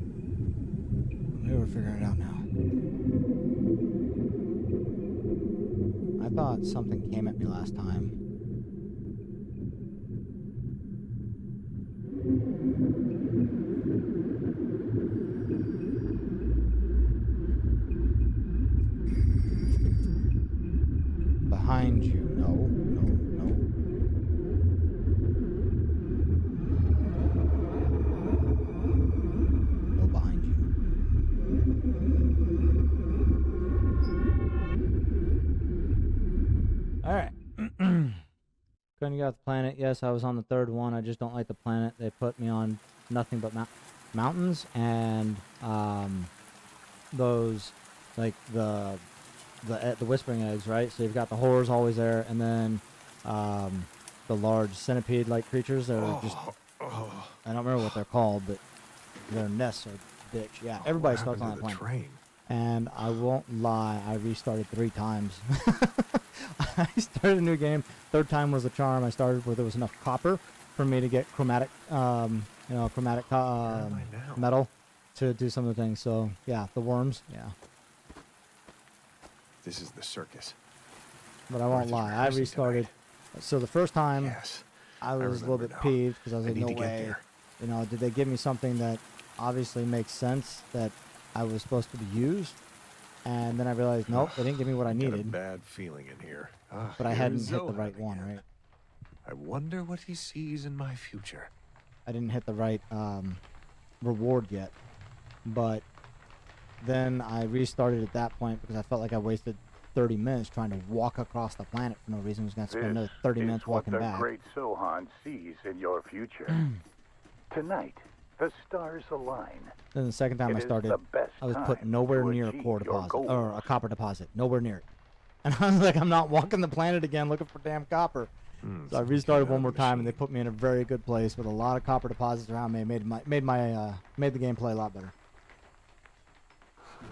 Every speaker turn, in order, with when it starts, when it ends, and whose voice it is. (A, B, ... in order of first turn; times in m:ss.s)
0:01.3-0:02.5 A
0:06.2-0:08.2 A
0:21.5-0:23.7 A
0:30.0-0:30.6 A
0:37.0-0:38.2 A
0:39.0-0:46.3 A
0:47.1-0:49.0 A
0:49.6-0:56.5 A
0:56.0-0:58.0 B
0:57.4-0:58.6 A
0:59.3-1:01.8 A
1:00.8-1:02.2 B
1:02.5-1:17.6 A
1:13.6-1:14.5 B
1:19.6-1:20.6 B
1:21.5-1:24.4 A
1:21.7-1:22.9 B
1:24.2-1:27.2 B
1:25.0-1:32.6 A
1:33.2-1:35.4 A
1:34.1-1:38.4 B
1:37.0-1:38.4 A
1:39.2-1:41.5 B
1:42.1-1:43.4 A
1:44.0-1:44.8 A
1:45.4-1:45.9 A
1:46.8-1:54.3 A
1:52.7-1:56.7 C
1:57.5-1:59.7 C
1:59.9-2:04.9 A
2:00.5-2:03.6 C
2:05.4-2:08.3 A
2:08.6-2:10.2 B
2:08.9-2:15.1 A